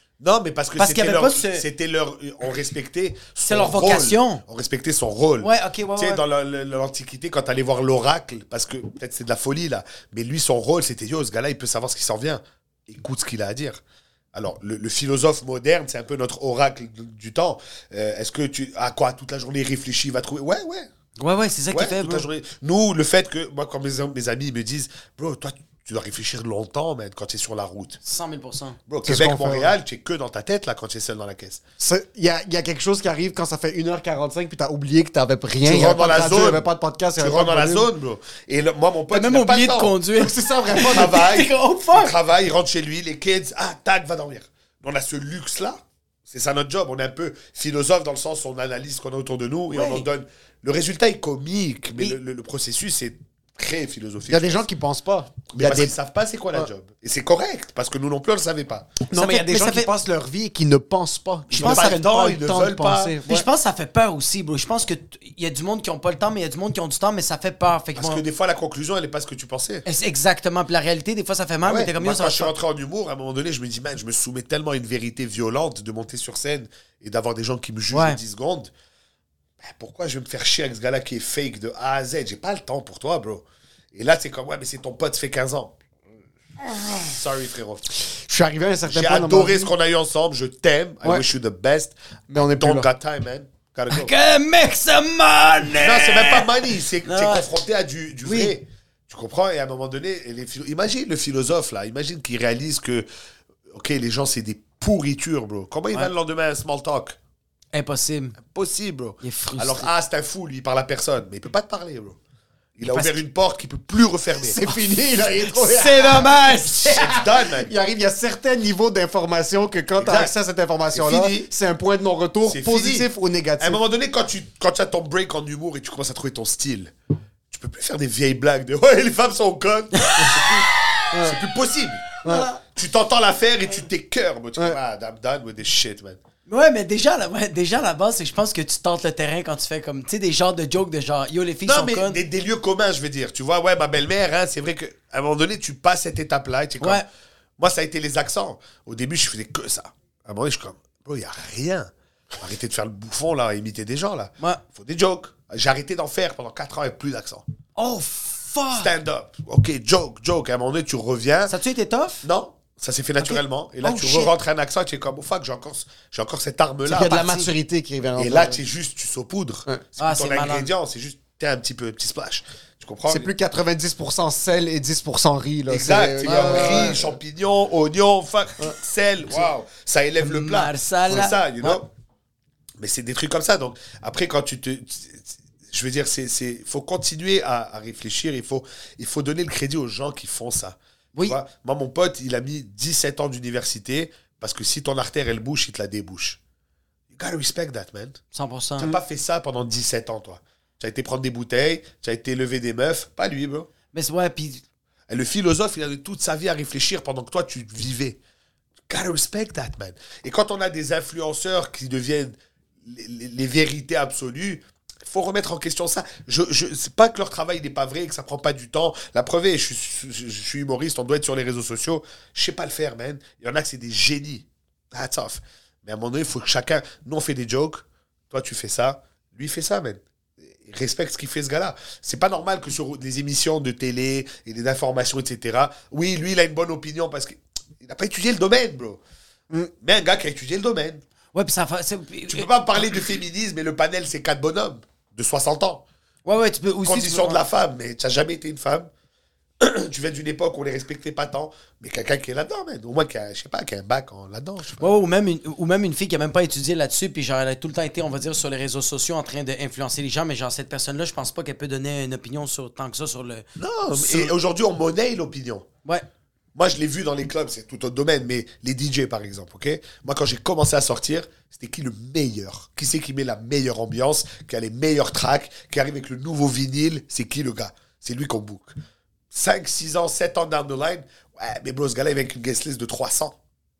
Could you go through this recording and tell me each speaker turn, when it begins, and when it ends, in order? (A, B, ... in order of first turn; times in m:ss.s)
0:00.2-0:13.8 A
0:00.8-0:01.6 B
0:03.5-0:04.4 B
0:05.4-0:06.2 B
0:14.3-0:20.9 A
0:21.2-0:22.2 B
0:21.7-0:28.0 A
0:28.0-0:28.8 B
0:28.9-0:31.6 A
0:29.0-0:29.7 C
0:31.8-0:37.9 C
0:35.6-0:36.6 A
0:37.2-0:40.0 A
0:39.1-0:42.1 B
0:40.2-0:41.2 C
0:40.9-0:54.6 A
0:49.7-0:50.0 B
0:54.3-0:55.9 C
0:55.5-0:58.9 A
0:59.1-1:03.5 C
0:59.1-0:59.9 B
1:01.5-1:03.2 A
1:01.6-1:02.0 B
1:03.3-1:08.2 B
1:08.0-1:09.8 A
1:09.8-1:12.5 B
1:11.6-1:18.7 A
1:17.9-1:18.2 B
1:19.6-1:25.8 A
1:26.6-1:27.9 A
1:28.1-1:29.7 C
1:28.8-1:34.1 A
1:32.3-1:32.9 C
1:33.9-1:37.5 B
1:35.7-1:43.0 A
1:38.2-1:38.5 B
1:43.7-1:47.2 A
1:47.7-1:48.4 B
1:48.4-1:52.2 A
1:49.2-1:49.9 B
1:52.8-1:54.6 A
1:52.9-1:53.2 B
1:54.4-2:03.8 C
1:55.5-1:57.1 B
1:56.8-1:57.7 A
2:00.0-2:00.3 A
2:00.9-2:01.5 A
2:02.4-2:06.9 A
2:07.5-2:16.2 A
2:10.0-2:10.3 B
2:11.1-2:11.4 C
2:12.2-2:12.5 C
2:16.5-2:22.2 B
2:21.6-2:27.0 A
2:27.6-2:37.4 A
2:37.8-2:38.9 B
2:38.7-2:41.5 A
2:41.5-2:42.2 B
2:42.2-2:47.3 A
2:43.2-2:44.3 B
2:46.8-2:48.6 C
2:47.1-2:47.5 B
2:48.2-2:53.3 A
2:50.0-2:50.7 B
2:53.1-2:57.1 C
2:55.7-3:01.9 A
2:56.2-2:57.0 B
3:00.2-3:01.8 B
3:02.8-3:16.4 A
3:17.1-3:18.2 A
3:18.3-3:18.9 B
3:18.8-3:23.7 A
3:23.9-3:24.6 B
3:25.1-3:28.2 A
3:28.9-3:59.0 A
3:59.8-4:01.0 A
4:01.3-4:02.5 B
4:02.3-4:05.8 A
4:06.2-4:07.4 B
4:06.8-4:08.9 A
4:09.6-4:14.9 A
4:14.8-4:24.3 B
4:23.6-4:25.7 A
4:26.5-4:38.8 A
4:39.3-4:43.4 A